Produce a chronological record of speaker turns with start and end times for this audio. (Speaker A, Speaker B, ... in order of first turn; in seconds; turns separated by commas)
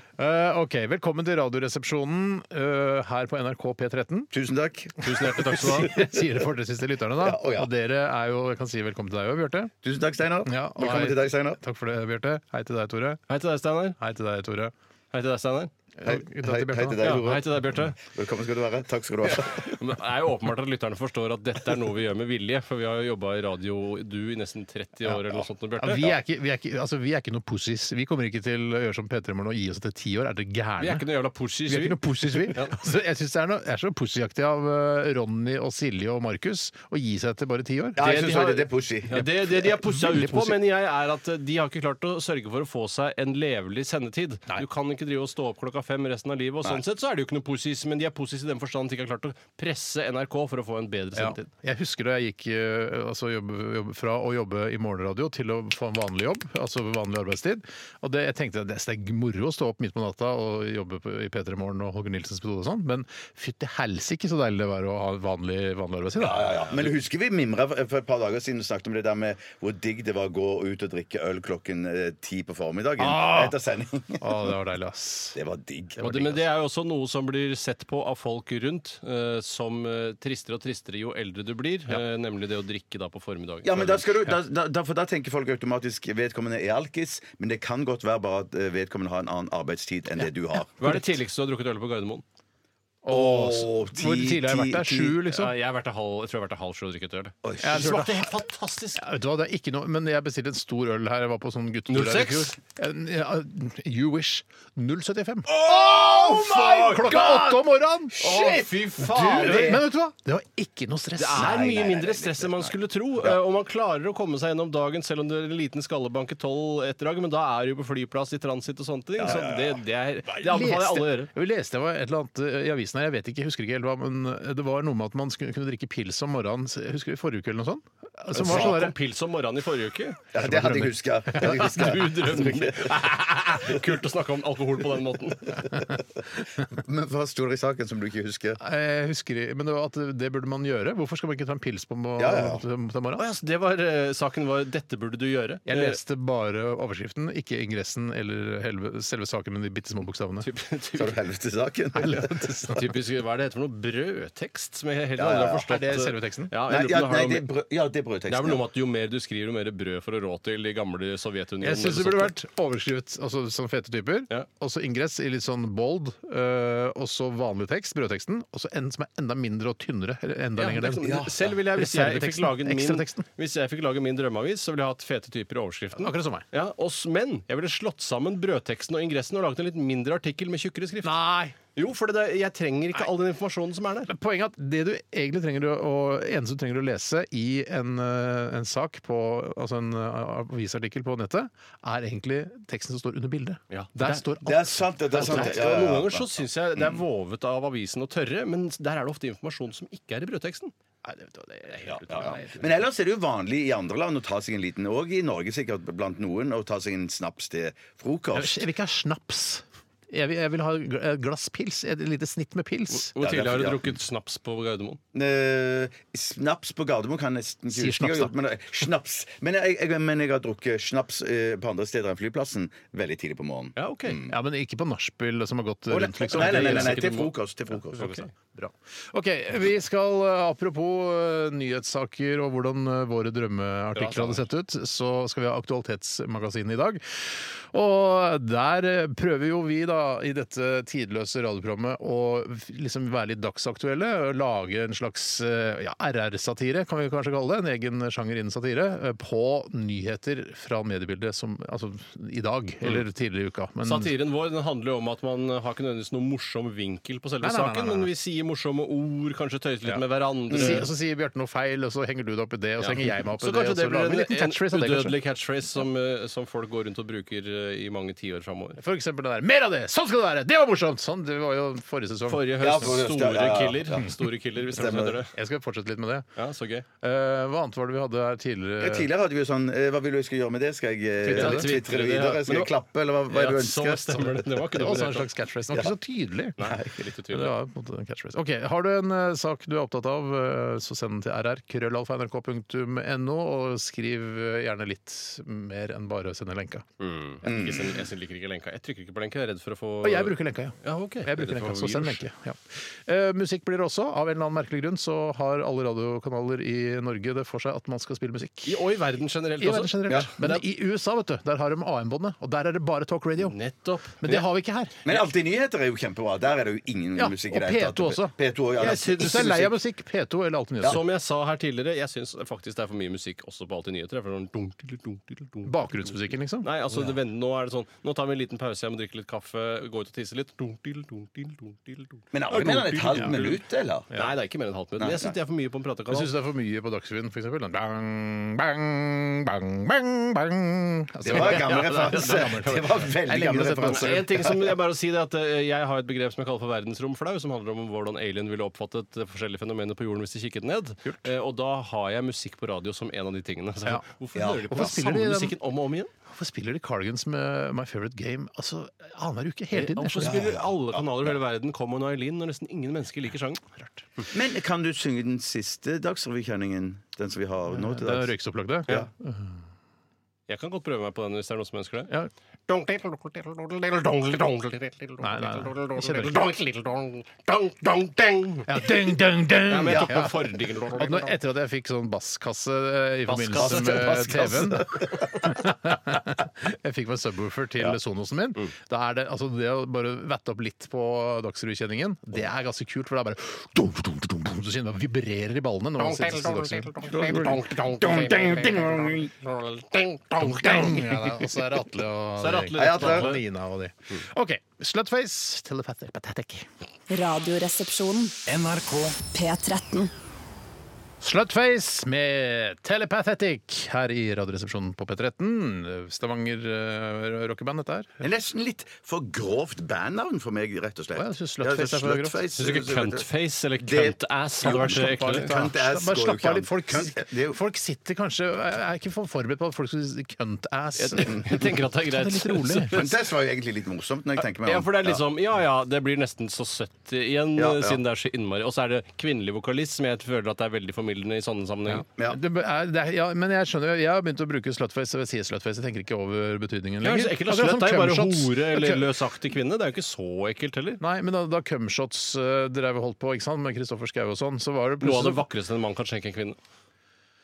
Speaker A: 0.2-4.3, Speaker B: 4.3-6.3, Speaker C: 5.0-6.0, Speaker A: 5.1-9.7, Speaker B: 7.2-7.7, Speaker B: 9.8-11.6, Speaker A: 10.5-13.2, Speaker C: 13.3-14.0, Speaker A: 14.0-14.7, Speaker C: 15.1-15.7, Speaker A: 16.0-17.2, Speaker B: 16.0-19.7, Speaker C: 17.0-18.0, Speaker C: 19.5-26.1, Speaker A: 25.8-31.1, Speaker C: 30.8-32.8, Speaker A: 31.7-38.0, Speaker B: 38.0-40.2, Speaker C: 38.0-51.5, Speaker A: 39.8-40.6, Speaker A: 51.1-66.9, Speaker B: 66.2-74.5, Speaker A: 73.0-73.6, Speaker A: 74.2-75.4, Speaker B: 75.3-76.1, Speaker A: 76.0-76.4, Speaker C: 76.0-84.1, Speaker B: 83.6-90.7, Speaker C: 90.8-92.2, Speaker A: 93.0-95.5, Speaker B: 93.1-95.2, Speaker C: 95.3-99.0, Speaker B: 97.4-98.0, Speaker A: 97.6-98.4, Speaker A: 99.0-108.2, Speaker C: 101.9-102.5, Speaker B: 105.5-107.6, Speaker C: 106.0-107.2, Speaker B: 108.2-109.8, Speaker C: 108.2-109.8, Speaker A: 109.0-111.6, Speaker C: 111.2-121.3, Speaker B: 111.3-113.4, Speaker B: 119.2-119.8, Speaker A: 120.3-128.9, Speaker C: 128.3-130.2, Speaker B: 128.4-128.8, Speaker B: 130.3-133.0, Speaker A: 130.3-132.3, Speaker C: 131.4-135.7, Speaker B: 136.6-138.6, Speaker A: 138.6-143.2, Speaker B: 142.2-142.6, Speaker C: 143.2-146.0, Speaker A: 145.7-150.5, Speaker C: 150.4-151.2, Speaker B: 150.9-152.6, Speaker A: 151.9-152.9, Speaker C: 152.7-157.5, Speaker B: 155.2-155.6, Speaker A: 155.7-156.5, Speaker B: 156.7-158.6, Speaker C: 158.3-162.3, Speaker A: 161.6-173.3, Speaker C: 170.6-181.1, Speaker B: 171.0-171.5, Speaker A: 176.0-176.4, Speaker A: 181.0-181.6, Speaker C: 181.8-184.1, Speaker A: 184.1-195.8, Speaker C: 193.7-194.2, Speaker B: 194.4-197.0, Speaker C: 195.1-200.7, Speaker A: 201.0-202.8, Speaker B: 202.0-208.6, Speaker A: 208.3-213.1, Speaker C: 212.9-215.0, Speaker B: 213.2-214.0, Speaker B: 215.1-224.3, Speaker A: 217.7-218.3, Speaker C: 223.8-224.2, Speaker A: 224.2-227.1, Speaker B: 225.9-228.2, Speaker C: 226.3-227.3, Speaker C: 227.9-228.3, Speaker A: 228.6-254.1, Speaker C: 233.9-234.4, Speaker C: 253.8-260.9, Speaker A: 257.4-258.1, Speaker A: 259.9-265.2, Speaker C: 262.8-268.8, Speaker A: 268.8-272.9, Speaker C: 272.3-275.3, Speaker B: 272.6-274.1, Speaker B: 274.7-275.2, Speaker A: 275.3-276.3, Speaker C: 276.4-276.9, Speaker A: 277.0-279.1, Speaker B: 278.8-284.4, Speaker A: 281.2-281.7, Speaker C: 281.3-282.7, Speaker C: 283.3-285.3, Speaker A: 284.7-286.6, Speaker C: 286.6-287.5, Speaker B: 286.6-286.9, Speaker A: 287.3-296.9, Speaker C: 297.0-302.2, Speaker B: 297.4-298.0, Speaker A: 300.0-308.9, Speaker C: 308.7-310.6, Speaker A: 309.6-313.6, Speaker C: 313.4-314.4, Speaker A: 314.2-315.0, Speaker B: 315.0-319.7, Speaker A: 317.2-318.4, Speaker C: 318.8-319.6, Speaker A: 318.9-321.0, Speaker C: 320.8-336.3, Speaker A: 325.6-327.0, Speaker B: 332.3-334.3, Speaker A: 332.5-333.4, Speaker B: 335.0-335.4, Speaker A: 336.1-344.3, Speaker B: 341.2-344.6, Speaker C: 341.3-342.5, Speaker C: 343.8-356.1, Speaker B: 354.4-354.9, Speaker A: 354.7-355.6, Speaker A: 356.3-360.4, Speaker C: 359.7-363.6, Speaker B: 360.2-361.0, Speaker B: 364.3-368.3, Speaker A: 367.7-369.6, Speaker C: 370.5-372.1, Speaker C: 372.7-378.9, Speaker A: 375.2-376.4, Speaker A: 378.7-397.0, Speaker C: 379.7-381.3, Speaker B: 379.9-380.3, Speaker B: 383.3-385.4, Speaker C: 383.5-384.0, Speaker C: 396.0-401.0, Speaker B: 397.1-399.3, Speaker A: 398.1-399.1, Speaker A: 400.4-406.7, Speaker C: 402.4-403.4, Speaker B: 402.8-403.3, Speaker D: 407.1-408.4, Speaker B: 408.5-409.1, Speaker D: 409.2-410.1, Speaker A: 411.2-418.3, Speaker B: 418.2-423.3, Speaker A: 421.1-422.4, Speaker C: 422.6-425.5, Speaker B: 423.8-427.6, Speaker A: 424.6-433.0, Speaker C: 431.0-433.1, Speaker B: 432.9-435.2, Speaker C: 434.4-442.1, Speaker B: 437.6-438.0, Speaker A: 441.9-449.1, Speaker C: 447.0-451.0, Speaker A: 451.0-455.4, Speaker C: 455.0-456.6